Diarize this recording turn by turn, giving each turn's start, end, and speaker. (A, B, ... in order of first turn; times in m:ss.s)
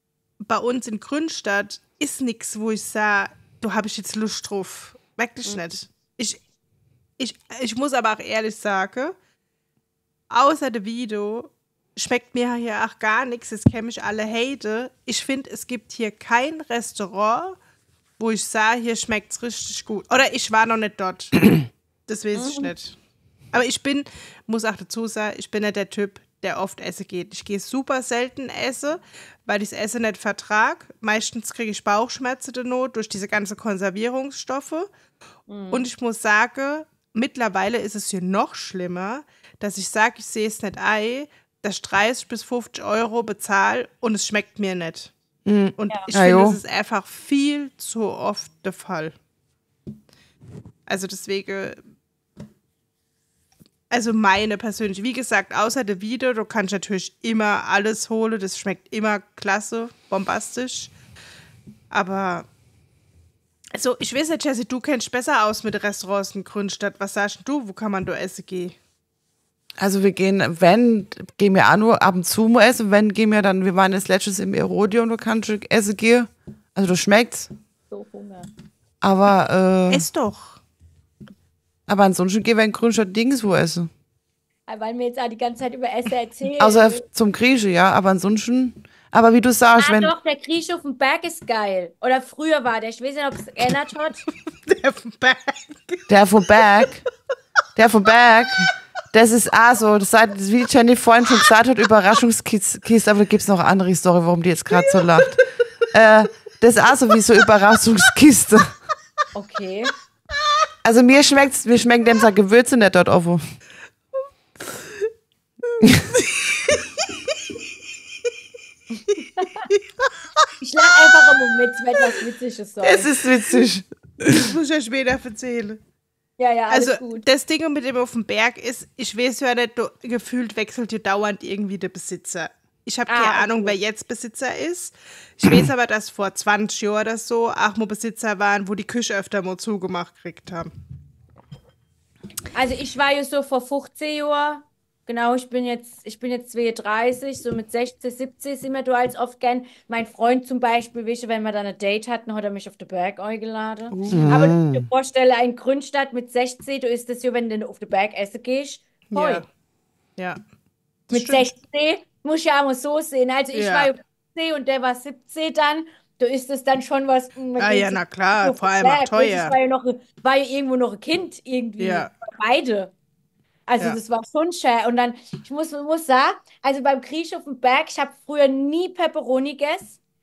0:00.4-0:06.4 A
0:07.2-0:09.2 A
0:10.3-0:17.6 A
0:18.2-0:23.0 A
0:22.4-0:22.7 B
0:23.5-0:34.9 A
0:35.5-0:35.9 B
0:35.7-0:45.1 A
0:45.5-0:46.6 C
0:45.8-0:49.1 A
0:50.9-0:51.8 A
0:53.9-1:00.9 A
1:01.9-1:02.5 A
1:03.8-1:08.8 A
1:09.8-1:17.5 C
1:17.9-1:18.5 B
1:19.0-1:20.1 C
1:19.9-1:20.6 A
1:21.9-1:23.9 C
1:24.7-1:27.0 B
1:26.6-1:30.1 C
1:29.8-1:34.2 B
1:34.6-1:36.9 A
1:36.1-1:37.0 C
1:37.8-1:48.8 C
1:44.8-1:45.3 A
1:49.3-1:49.9 B
1:50.8-1:53.4 C
1:55.8-1:56.1 C
1:56.1-1:57.1 A
1:58.9-1:59.7 B
2:00.6-2:03.1 B
2:02.8-2:04.5 C
2:04.3-2:05.8 A
2:06.4-2:07.2 B
2:06.7-2:20.7 A
2:13.1-2:13.8 B
2:22.5-2:39.4 B
2:33.9-2:34.4 A
2:34.1-2:34.9 C
2:39.1-2:39.5 A
2:41.1-2:41.5 A
2:41.1-2:52.9 B
2:43.5-2:43.9 A
2:47.6-2:49.6 A
2:51.8-2:52.1 A
2:53.7-3:00.0 B